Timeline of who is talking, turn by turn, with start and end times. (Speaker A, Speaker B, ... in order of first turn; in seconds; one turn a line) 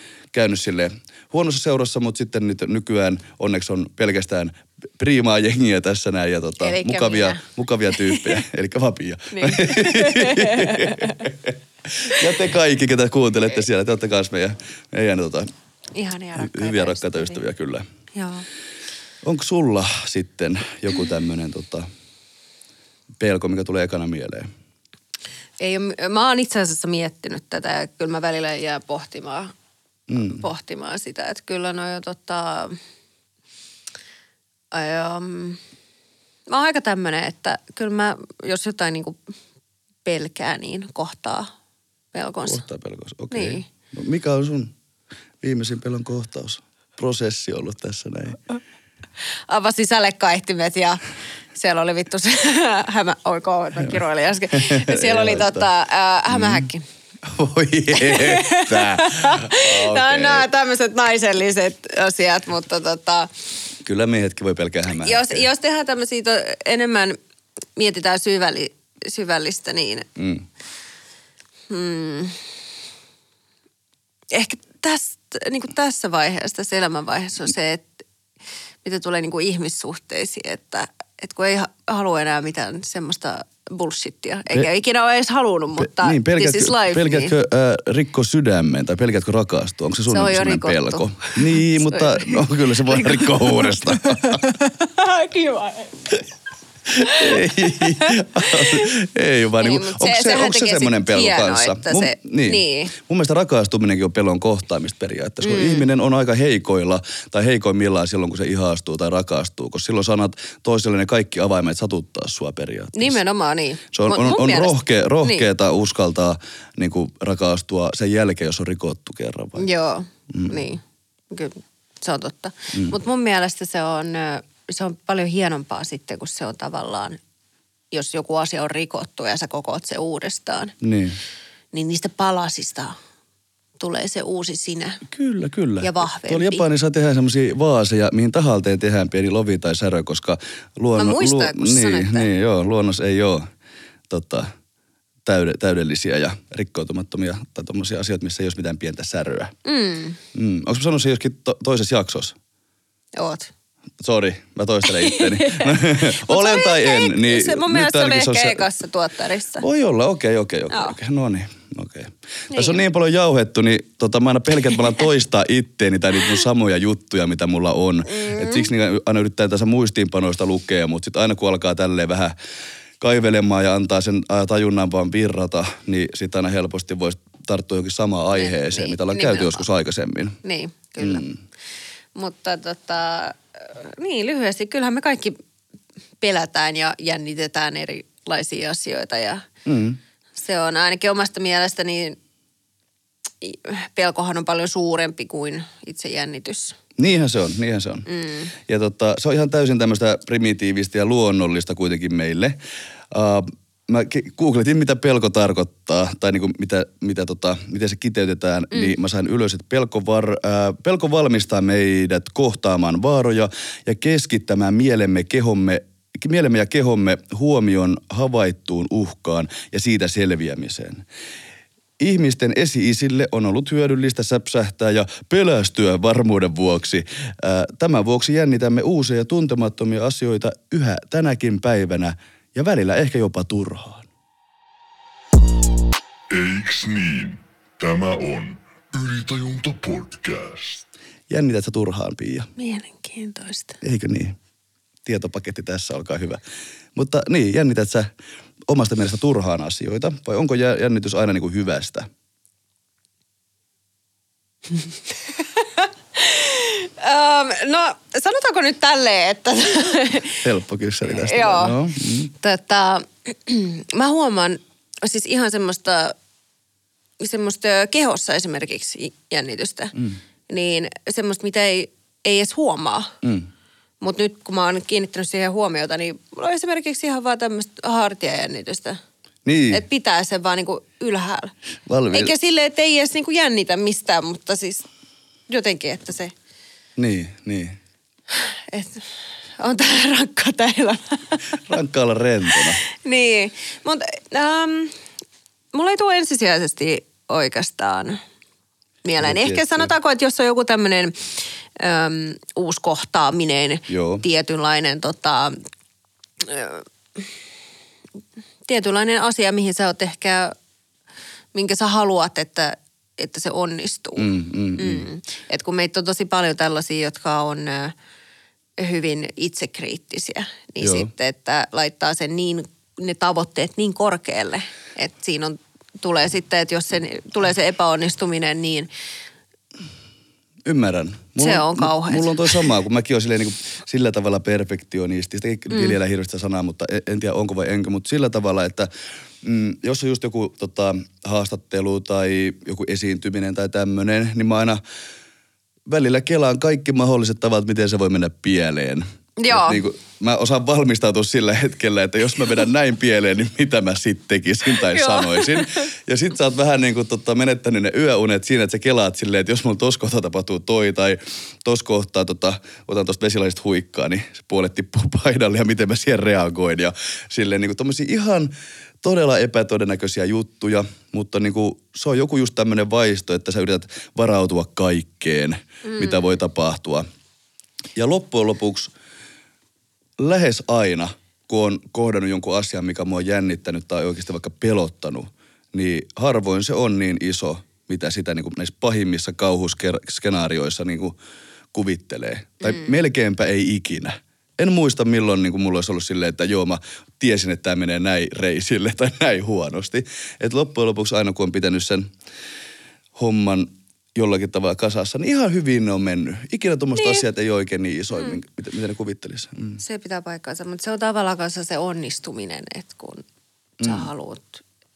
Speaker A: 0.3-15.5
Speaker B: 6.6-7.4
Speaker B: 7.9-8.4
Speaker B: 9.3-11.2
Speaker B: 15.9-17.4
Speaker A: 16.4-17.9
Speaker B: 18.1-18.4
Speaker A: 19.2-21.9
Speaker A: 23.2-24.5
Speaker B: 25.6-29.5
Speaker A: 30.1-30.5
Speaker B: 30.1-32.8
Speaker B: 34.7-35.6
Speaker B: 36.5-39.2
Speaker B: 40.0-41.5
Speaker B: 42.1-42.6
Speaker A: 42.5-44.7
Speaker B: 43.3-43.6
Speaker A: 45.4-48.4
Speaker B: 49.5-51.0
Speaker B: 51.5-56.9
Speaker A: 54.5-55.6
Speaker A: 56.3-56.7
Speaker A: 57.2-60.5
Speaker B: 57.9-63.3
Speaker A: 63.9-65.5
Speaker B: 65.0-67.2
Speaker B: 67.8-70.1
Speaker A: 70.2-70.5
Speaker B: 71.7-72.4
Speaker B: 74.3-78.0
Speaker B: 78.8-87.4
Speaker A: 85.8-94.5
Speaker B: 90.1-96.2
Speaker A: 96.9-113.2
Speaker B: 97.0-98.9
Speaker B: 99.6-102.9
Speaker B: 105.4-105.9
Speaker B: 112.9-115.5
Speaker A: 113.9-119.6
Speaker B: 119.6-127.2
Speaker A: 120.3-120.6
Speaker B: 127.9-130.8
Speaker A: 130.8-131.2
Speaker B: 131.7-133.0
Speaker B: 133.8-135.0
Speaker A: 135.1-143.5
Speaker B: 135.8-136.6
Speaker B: 141.0-142.3
Speaker A: 144.1-144.5
Speaker A: 145.2-149.5
Speaker B: 149.6-150.2
Speaker A: 150.3-152.3
Speaker B: 153.2-153.5
Speaker A: 154.0-158.7
Speaker B: 154.9-159.6
Speaker A: 159.6-172.3
Speaker B: 160.7-161.0
Speaker B: 162.5-162.8
Speaker B: 168.1-168.7
Speaker A: 173.0-180.4
Speaker B: 178.3-179.6
Speaker B: 180.4-181.2
Speaker A: 181.0-181.4
Speaker B: 182.1-185.4
Speaker B: 186.2-189.5
Speaker A: 189.6-190.0
Speaker B: 190.4-192.2
Speaker B: 193.4-196.8
Speaker A: 197.0-198.1
Speaker B: 198.1-198.5
Speaker A: 198.7-202.6
Speaker A: 203.1-221.1
Speaker A: 222.0-234.1
Speaker C: 236.3-240.8
Speaker A: 241.3-242.5
Speaker B: 242.6-243.8
Speaker A: 243.8-244.4
Speaker A: 245.1-246.4
Speaker A: 247.0-248.1
Speaker A: 248.7-252.1
Speaker B: 255.6-260.4
Speaker A: 260.4-262.3
Speaker B: 261.1-261.8
Speaker B: 262.4-266.1
Speaker B: 267.2-269.9
Speaker B: 270.5-273.1
Speaker A: 273.2-273.5
Speaker B: 274.0-279.0
Speaker A: 279.4-279.8
Speaker B: 279.7-281.5
Speaker A: 281.9-282.3
Speaker B: 282.1-284.9
Speaker B: 285.5-286.3
Speaker A: 287.0-287.8
Speaker B: 288.4-289.1
Speaker B: 289.6-291.6
Speaker A: 291.6-292.8
Speaker B: 292.9-294.9
Speaker B: 295.7-298.2
Speaker B: 299.1-305.6
Speaker A: 299.2-299.9
Speaker A: 303.9-304.2
Speaker B: 306.4-307.2
Speaker B: 308.7-310.6
Speaker B: 311.5-317.9
Speaker A: 314.2-315.1
Speaker B: 318.8-328.9
Speaker A: 320.8-321.1
Speaker A: 330.6-338.9
Speaker B: 331.4-332.7
Speaker B: 335.7-336.0
Speaker A: 339.4-344.8
Speaker A: 345.9-368.5
Speaker B: 349.4-349.8
Speaker B: 354.9-355.9
Speaker A: 369.0-377.0
Speaker B: 375.8-376.4
Speaker A: 378.0-378.9
Speaker A: 380.2-391.2
Speaker A: 391.7-402.1
Speaker A: 403.2-409.8
Speaker B: 407.0-407.2
Speaker B: 409.8-413.2
Speaker A: 413.8-414.1
Speaker B: 413.8-414.6